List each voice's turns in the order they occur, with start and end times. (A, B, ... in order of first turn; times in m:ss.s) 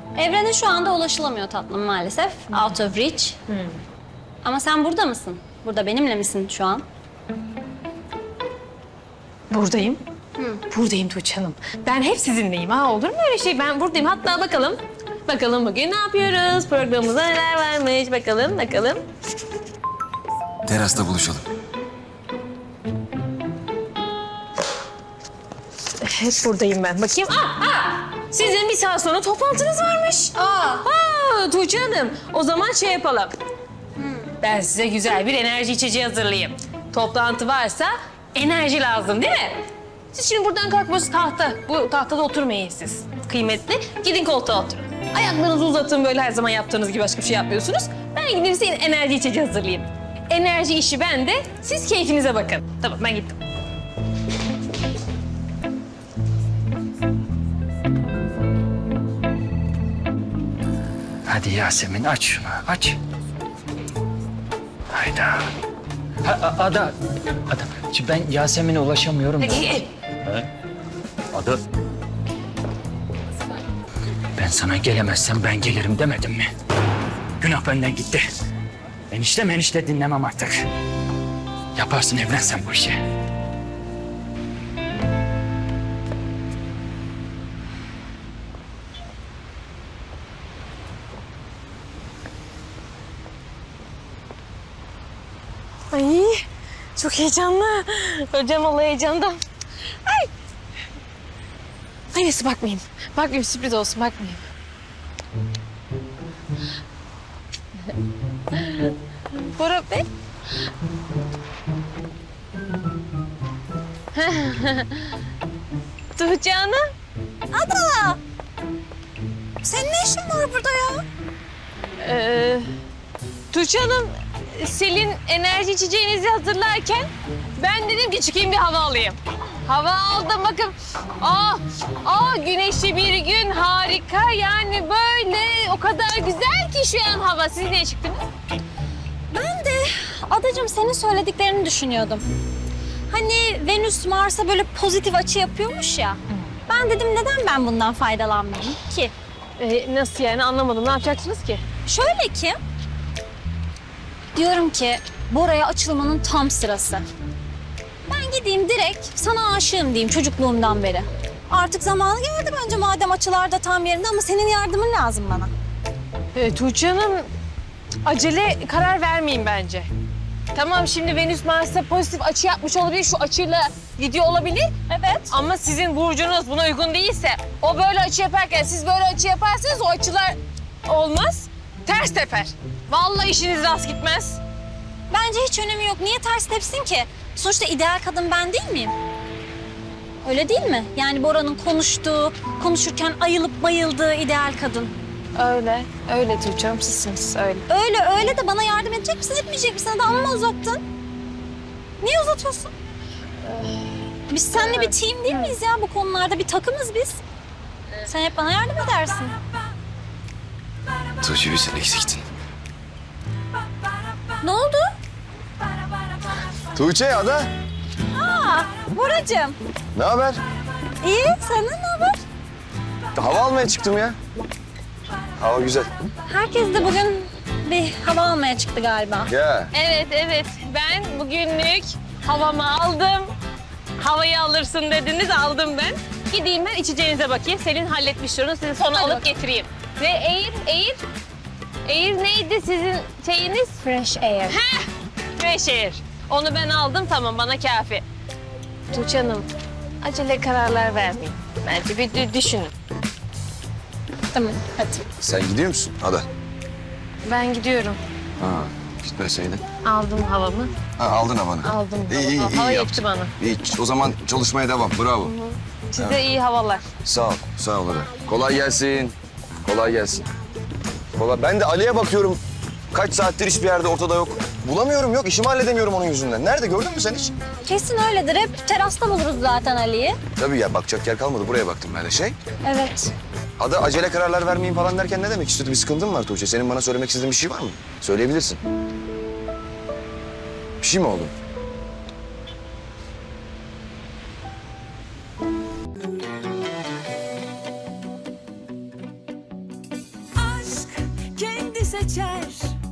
0:00.2-0:03.4 A
0:03.5-0:03.8 B
0:04.4-0:06.8 A
0:09.5-0:10.0 B
0:10.4-0:10.6 A
0:10.7-0:19.0 B
0:20.7-0:21.4 C
0:26.0-0:33.3 B
0:30.4-0:30.8 A
0:34.0-0:34.3 A
0:34.4-0:39.6 B
0:40.1-0:53.4 B
1:01.3-1:03.0 D
1:04.9-1:05.5 D
1:06.2-1:06.9 D
1:07.5-1:09.7 D
1:09.4-1:09.8 B
1:11.3-1:11.6 D
1:14.4-1:16.5 D
1:17.4-1:18.2 D
1:19.1-1:20.6 D
1:21.8-1:23.0 D
1:35.9-1:39.4 B
1:42.1-1:44.4 B
1:48.6-1:48.9 B
1:49.6-1:50.1 B
1:54.1-1:55.1 B
1:56.2-1:56.8 B
1:57.5-1:58.2 A
1:59.6-2:01.0 A
2:02.0-2:02.7 B
2:03.5-2:18.2 B
2:19.3-2:22.3 A
2:23.1-2:29.1 A
2:29.6-2:31.6 B
2:31.9-2:32.6 A
2:34.4-2:37.0 A
2:38.1-2:45.5 A
2:46.4-2:47.3 B
2:48.1-2:49.9 B
2:50.5-2:54.7 B
2:54.9-2:55.3 A
2:55.3-3:04.4 B
3:05.1-3:08.9 A
3:10.2-3:15.0 A
3:15.4-3:17.7 B
3:17.7-3:20.8 A
3:22.0-3:22.7 A
3:23.5-3:23.8 B
3:24.3-3:27.2 A
3:24.6-3:25.5 B
3:28.0-3:29.4 A
3:31.2-3:32.2 C
3:34.4-3:34.9 A
3:36.7-3:37.5 C
3:38.1-3:39.6 A
3:40.0-3:40.4 C
3:41.0-3:42.2 A
3:43.2-3:44.2 C
3:45.4-3:45.9 C
3:46.3-3:49.3 A
3:49.3-3:49.7 C
3:49.7-3:53.3 B
3:54.0-4:01.0 B
3:58.9-3:59.3 A
4:01.8-4:03.8 B
4:03.8-4:04.6 A
4:04.5-4:04.8 B
4:05.4-4:08.0 B
4:08.9-4:09.5 B
4:10.0-4:12.7 B
4:14.3-4:15.0 A
4:15.2-4:16.3 C
4:17.3-4:18.0 B
4:18.4-4:19.6 C
4:19.8-4:20.7 B
4:21.0-4:25.4 C
4:21.6-4:23.3 B
4:25.2-4:26.8 B
4:27.0-4:30.3 C
4:31.2-4:32.4 C
4:32.9-4:37.3 C
4:37.6-4:40.2 A
4:40.4-4:42.4 C
4:42.6-4:43.1 A
4:43.6-4:48.6 C
4:50.8-4:51.3 C
5:00.4-5:02.7 B